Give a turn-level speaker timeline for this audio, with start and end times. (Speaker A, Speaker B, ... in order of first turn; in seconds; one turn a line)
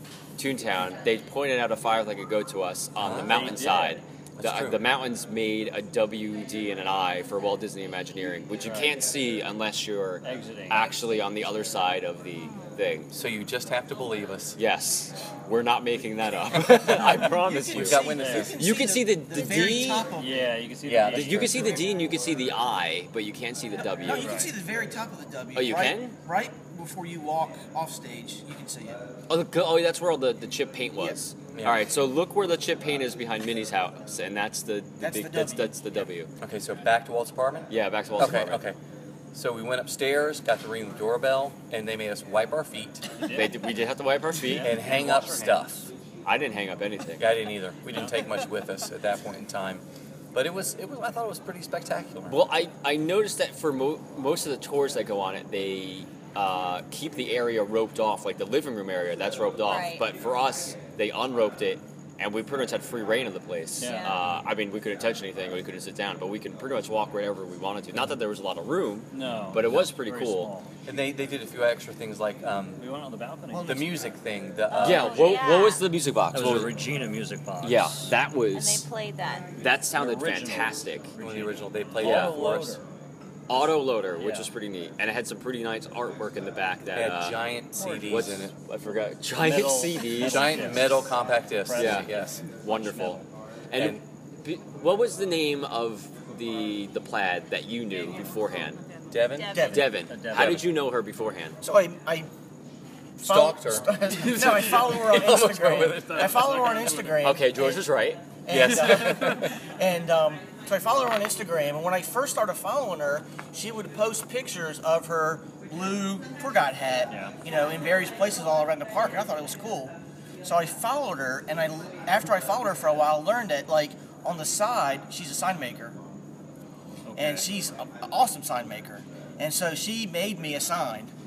Speaker A: 0.3-13.1
Speaker B: 3.0-3.6
Speaker C: 3.1-4.0
Speaker B: 4.4-4.8
Speaker C: 8.6-8.9
Speaker C: 10.2-11.0
Speaker B: 13.1-14.6
Speaker A: 14.6-18.0
Speaker D: 17.2-20.5
Speaker B: 17.7-18.5
Speaker C: 17.8-18.6
Speaker A: 18.6-20.1
Speaker E: 19.4-20.0
Speaker C: 20.0-21.9
Speaker B: 20.9-21.7
Speaker A: 21.1-24.4
Speaker D: 24.0-29.0
Speaker C: 24.1-24.5
Speaker A: 25.5-26.1
Speaker A: 29.3-36.3
Speaker B: 31.5-31.8
Speaker D: 35.0-35.7
Speaker B: 36.4-38.8
Speaker A: 37.7-38.6
Speaker B: 39.3-43.1
Speaker C: 43.1-43.5
Speaker A: 43.3-44.8
Speaker C: 44.3-45.9
Speaker B: 44.6-45.9
Speaker A: 46.2-47.4
Speaker B: 47.2-49.8
Speaker C: 47.9-48.2
Speaker B: 50.3-52.4
Speaker A: 52.3-70.5
Speaker E: 59.6-60.0
Speaker C: 63.8-64.2
Speaker E: 63.9-64.1
Speaker C: 69.1-70.7
Speaker B: 69.6-69.9
Speaker B: 70.8-72.8
Speaker C: 72.8-74.1
Speaker D: 73.5-74.0
Speaker B: 73.6-75.4
Speaker E: 74.7-75.8
Speaker A: 74.8-76.7
Speaker C: 76.3-78.1
Speaker A: 77.6-78.8
Speaker E: 78.5-79.5
Speaker A: 79.5-81.1
Speaker C: 79.9-82.8
Speaker B: 81.2-82.8
Speaker A: 82.0-82.4
Speaker A: 83.5-87.5
Speaker C: 84.2-84.5
Speaker B: 86.9-88.5
Speaker C: 87.8-88.1
Speaker A: 88.1-90.9
Speaker C: 89.3-93.2
Speaker B: 90.2-92.4
Speaker A: 91.8-98.8
Speaker B: 93.8-94.0
Speaker E: 97.9-99.8
Speaker B: 99.1-100.6
Speaker D: 99.5-100.0
Speaker A: 99.6-101.6
Speaker C: 100.0-100.6
Speaker D: 101.6-102.3
Speaker D: 103.2-107.8
Speaker B: 103.2-106.6
Speaker C: 106.5-107.1
Speaker A: 107.2-108.2
Speaker D: 108.5-126.0
Speaker B: 108.5-109.5
Speaker C: 117.1-117.4
Speaker C: 127.0-127.5
Speaker D: 127.1-131.1